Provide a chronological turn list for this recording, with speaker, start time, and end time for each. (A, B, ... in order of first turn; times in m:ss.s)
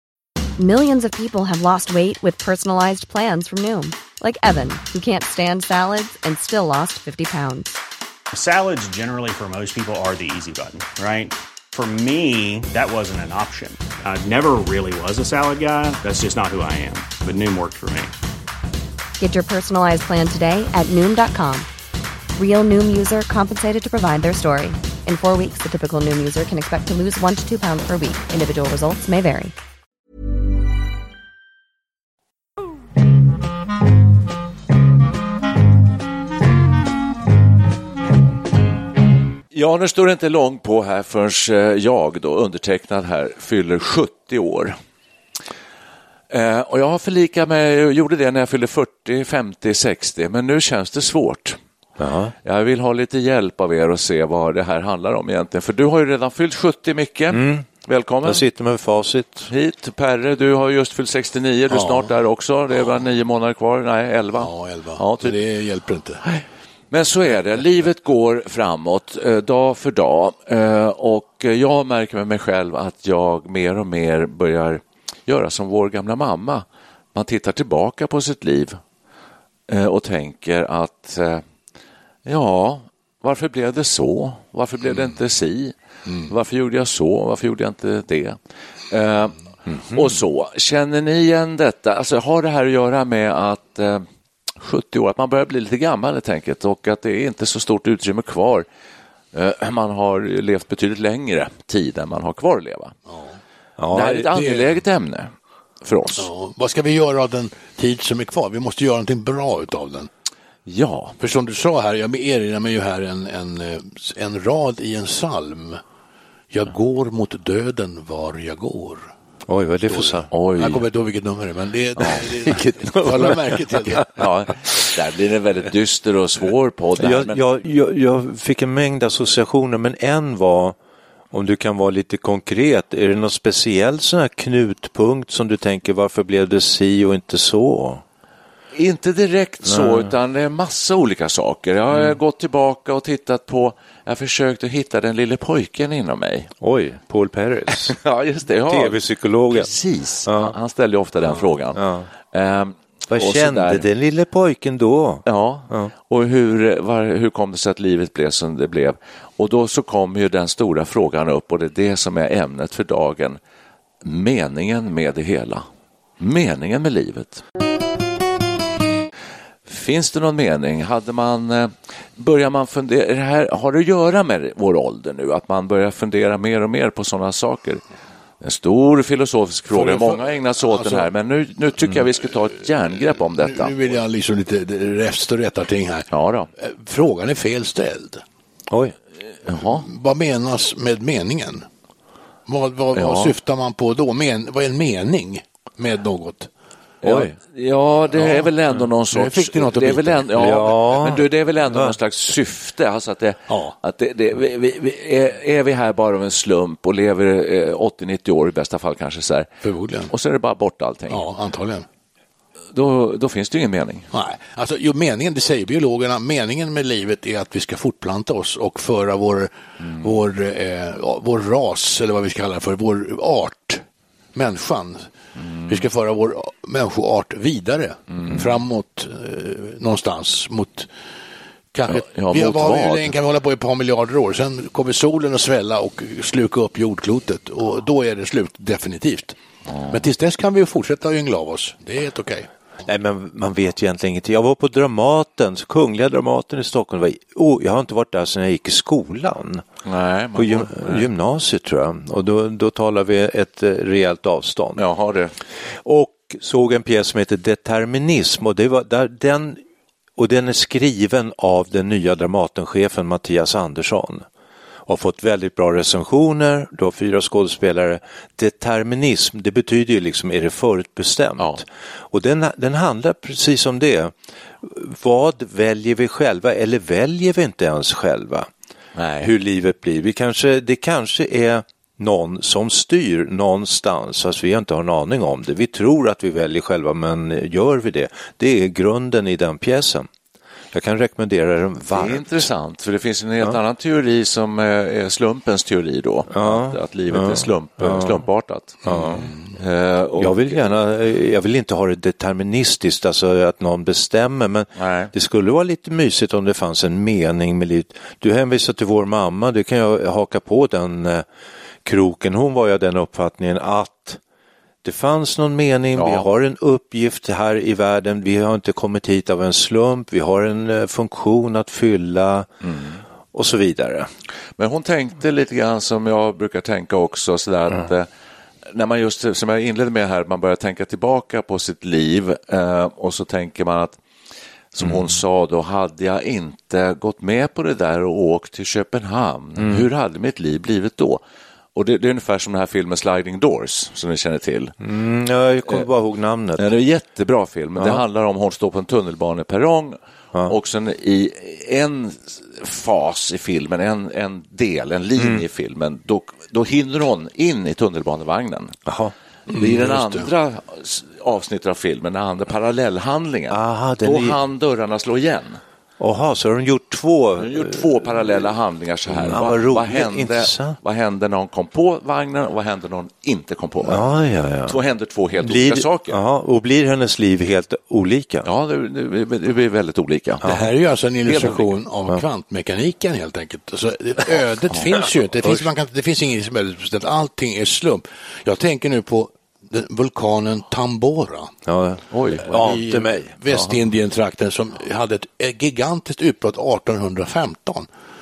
0:00.6-0:07.8 A
0:08.3-0:18.1 B
0:19.2-0:21.7 A
0:22.4-0:29.5 A
0:39.5-0:44.8 C
0:46.3-0:51.6 C
0:52.0-0:52.3 D
0:52.4-0:58.4 C
0:57.3-0:57.7 D
0:58.2-0:59.5 D
0:59.5-1:05.4 C
1:01.7-1:02.1 E
1:04.4-1:06.2 E
1:06.2-1:18.8 C
1:19.7-1:21.4 C
1:22.3-1:25.7 C
1:26.1-1:26.3 E
1:26.3-1:28.4 C
1:28.9-1:34.0 C
1:34.6-1:38.7 C
1:39.3-1:42.9 C
1:43.1-1:43.4 E
1:43.8-1:44.3 D
1:43.9-1:45.3 C
1:44.3-1:44.6 E
1:45.8-1:46.3 C
1:46.2-1:50.1 E
1:50.7-1:51.2 C
1:51.2-1:55.8 E
1:56.5-1:59.1 E
1:59.5-2:00.3 D
1:59.9-2:04.2 E
2:00.3-2:00.8 C
2:02.0-2:04.0 D
2:04.2-2:07.4 C
2:07.0-2:10.8 D
2:11.3-2:18.0 D
2:18.7-2:26.5 C
2:19.7-2:20.1 D
2:26.6-2:28.0 D
2:27.7-2:29.0 C
2:28.7-2:29.7 D
2:29.5-2:33.9 C
2:30.2-2:30.5 D
2:31.7-2:32.1 D
2:33.1-2:35.9 D
2:35.2-2:43.4 C
2:44.0-2:45.7 C
2:46.2-2:47.4 C
2:49.7-2:57.8 C
2:58.4-3:03.8 C
2:59.7-3:01.1 E
3:03.2-3:06.1 E
3:06.1-3:06.5 C
3:06.6-3:08.2 E
3:08.7-3:08.9 D
3:09.4-3:09.8 C
3:09.7-3:11.7 E
3:12.5-3:16.5 E
3:12.9-3:13.3 C
3:17.0-3:29.5 C
3:17.0-3:17.3 D
3:18.1-3:18.5 E
3:19.1-3:20.4 E
3:20.4-3:22.0 D
3:23.5-3:23.7 E
3:29.6-3:30.1 E
3:30.1-3:31.3 C
3:31.1-3:31.8 E
3:32.7-3:34.1 C
3:34.1-3:43.8 E
3:39.8-3:40.2 C
3:44.3-3:45.1 E
3:45.4-3:45.8 C
3:45.7-3:50.9 E
3:48.1-3:48.4 C
3:51.7-3:59.4 E
3:51.9-3:53.2 C
3:59.7-4:00.0 C
3:59.9-4:02.5 E
4:02.8-4:09.6 D
4:09.8-4:11.1 C
4:10.3-4:14.8 D
4:14.8-4:15.3 C
4:15.8-4:19.6 D
4:20.2-4:24.2 D
4:24.9-4:38.5 D
4:39.0-4:39.3 C
4:39.2-4:50.1 D
4:50.7-4:52.2 D
4:51.9-5:00.7 C
4:56.3-4:58.2 D
4:58.9-4:59.3 D
4:59.0-4:59.5 E
5:00.2-5:11.2 D
5:04.8-5:05.1 C
5:11.8-5:14.2 D
5:14.8-5:22.5 D
5:16.0-5:16.3 C
5:22.6-5:23.0 C
5:23.3-5:24.1 D
5:24.6-5:28.1 C
5:28.7-5:34.0 C
5:34.7-5:41.2 C
5:39.6-5:39.9 D
5:41.8-5:44.7 C
5:44.8-5:46.7 D
5:46.6-5:58.8 C
5:55.2-5:55.4 D
5:58.9-5:59.1 D
5:59.5-6:00.3 E
5:59.5-6:05.6 C
6:03.5-6:04.4 D
6:06.0-6:08.1 D
6:07.4-6:14.1 C
6:09.2-6:10.8 D
6:13.8-6:14.8 D
6:14.7-6:16.2 C
6:15.4-6:18.5 D
6:18.4-6:20.6 C
6:20.4-6:31.5 E
6:21.2-6:21.7 C
6:31.7-6:33.3 D
6:32.1-6:32.8 C
6:32.4-6:37.9 E
6:33.5-6:33.8 C